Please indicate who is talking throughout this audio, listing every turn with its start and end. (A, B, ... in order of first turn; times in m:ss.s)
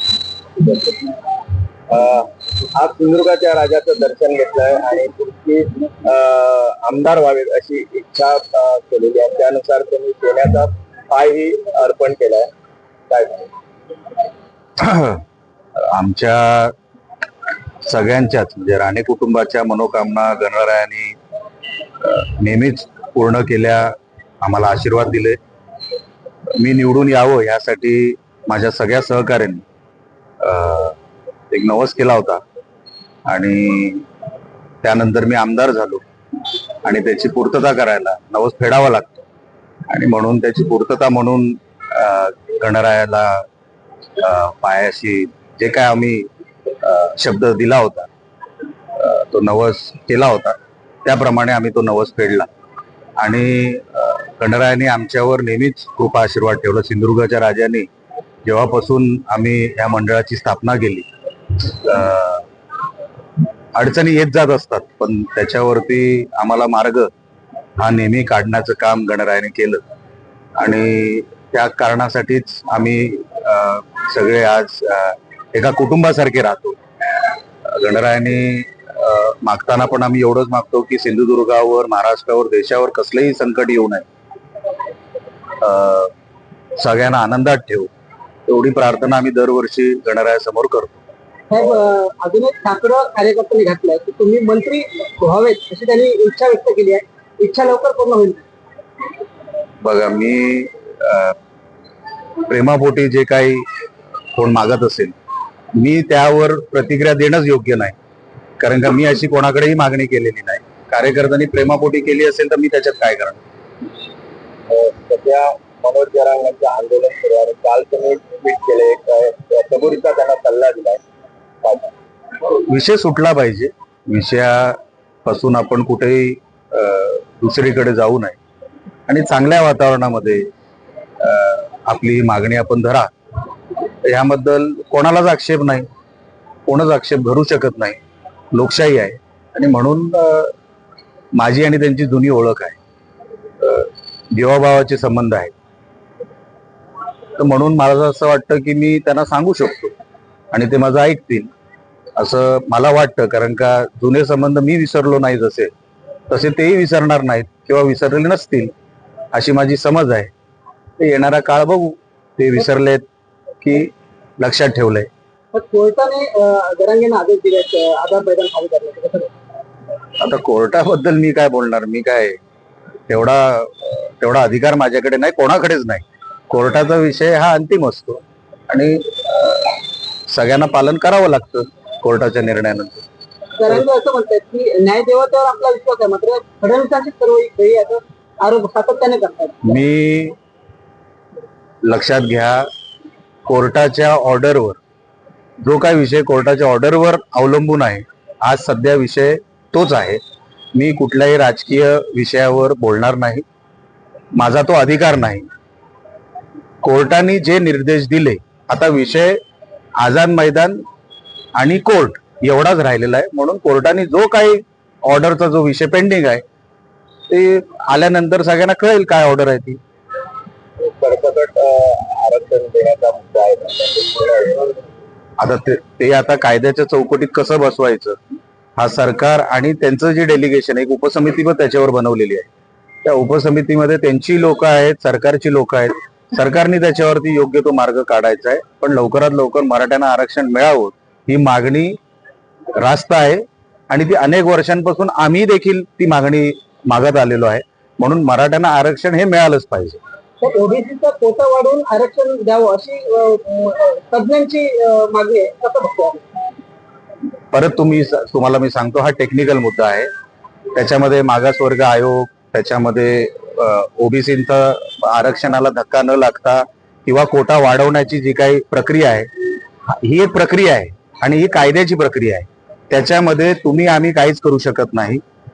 0:00.6-0:01.2 A
0:01.9-0:12.5 A
0:13.1-0:13.5 A
0:14.8-0:15.2 B
0:15.9-0:16.7 B
0:17.8-0:21.2 B
0:22.0-0:25.4 B
0:26.6-0:29.6 B
0:30.4-0:31.0 B
0:31.5-0:32.4 B
0:33.3-0:34.1 B
0:34.8-0:36.0 B
0:36.8-0:39.2 B
0:39.9-0:43.4 B
0:44.2-0:46.3 B
0:46.8-0:48.1 B
0:49.0-0:52.5 B
0:53.2-0:57.9 B
0:58.4-1:02.5 B
1:03.8-1:07.1 B
1:07.8-1:09.8 B
1:10.6-1:24.0 B
1:25.6-1:26.1 B
1:26.8-1:27.9 B
1:28.5-1:31.0 B
1:31.5-1:38.4 C
1:39.8-1:41.4 B
1:42.5-1:43.6 B
1:44.4-1:45.1 B
1:45.8-1:48.0 B
1:48.6-1:53.4 B
1:54.7-2:01.0 A
2:01.6-2:01.9 A
2:02.4-2:08.4 B
2:09.1-2:10.5 B
2:11.2-2:13.1 B
2:14.0-2:15.9 B
2:16.7-2:18.0 B
2:18.5-2:20.5 B
2:21.3-2:22.8 B
2:23.6-2:25.5 B
2:27.4-2:30.0 B
2:30.5-2:31.5 B
2:32.2-2:35.7 B
2:36.3-2:38.7 B
2:39.3-2:40.3 B
2:41.0-2:43.0 B
2:43.6-2:45.1 B
2:45.5-2:49.3 C
2:50.2-2:52.4 B
2:53.1-3:03.0 B
3:03.6-3:09.6 C
3:09.6-3:10.4 B
3:11.8-3:12.6 B
3:13.5-3:14.8 B
3:15.6-3:20.2 B
3:20.8-3:23.4 B
3:24.3-3:25.4 B
3:26.8-3:29.4 B
3:30.0-3:30.8 B
3:31.6-3:36.4 B
3:37.3-3:39.8 B
3:40.8-3:44.8 A
3:45.4-3:48.2 B
3:48.8-3:52.5 B
3:53.0-4:02.0 B
4:02.8-4:10.0 B
4:10.4-4:16.2 C
4:17.5-4:20.1 B
4:20.7-4:29.3 B
4:29.9-4:35.2 B